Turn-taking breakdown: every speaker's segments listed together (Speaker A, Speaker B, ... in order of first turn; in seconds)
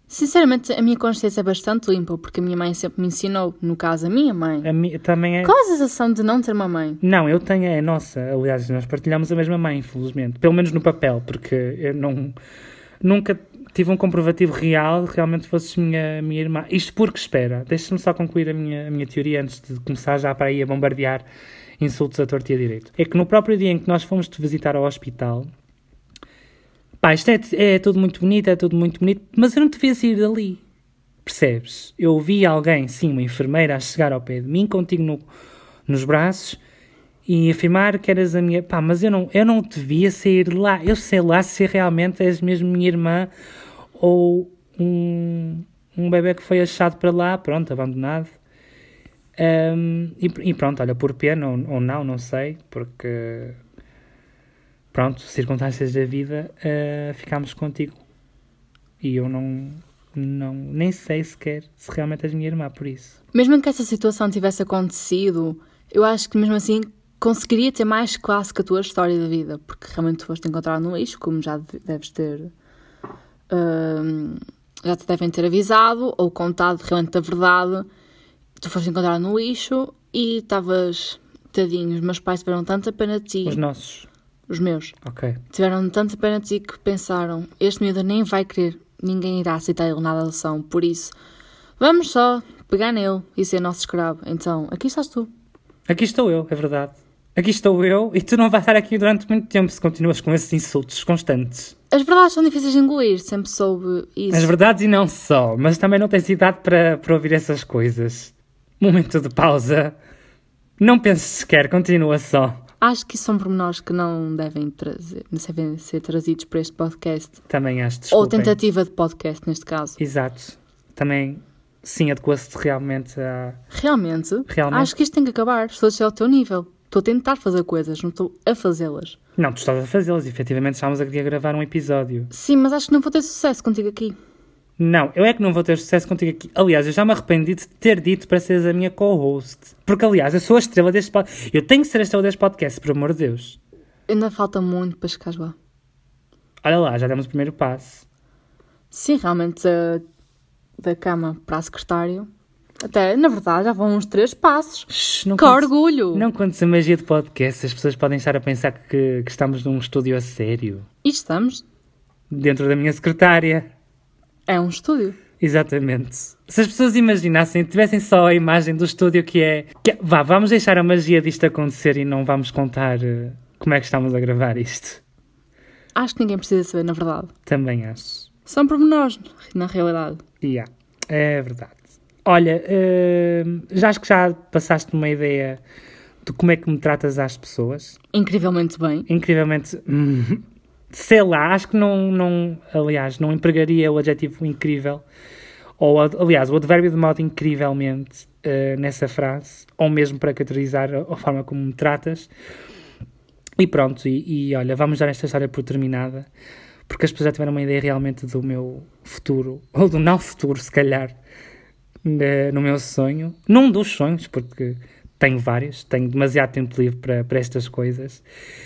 Speaker A: 0.1-4.7, 5.4-7.0, 63.3-72.5, 73.5-77.8, 78.6-83.6, 84.5-85.0, 85.5-91.1, 91.8-95.3, 101.9-104.5, 112.8-117.4, 118.1-120.0, 123.7-129.2, 132.3-134.2, 144.1-145.6, 148.9-150.0, 150.8-152.3, 152.8-156.3, 161.0-161.6, 164.5-165.2, 175.9-177.3, 178.5-180.2, 188.1-189.1
Speaker B: 4.6-5.5, 7.0-12.3, 13.0-21.2, 21.8-25.5, 27.0-30.6, 31.2-35.2, 35.9-36.6, 37.2-43.3, 44.0-48.3, 49.4-53.6, 54.9-58.0, 59.0-63.1, 83.4-84.1, 85.0-85.4, 95.9-101.7, 104.3-110.0, 110.8-112.6, 117.5-118.5, 120.0-123.6, 124.5-124.9, 129.4-132.3, 134.8-143.6, 146.6-148.1, 154.9-160.8, 162.3-163.7, 165.4-175.0, 177.4-178.3, 180.4-185.6, 186.2-188.0, 189.1-195.0, 195.8-202.3, 203.6-206.3, 206.9-211.2, 212.0-218.2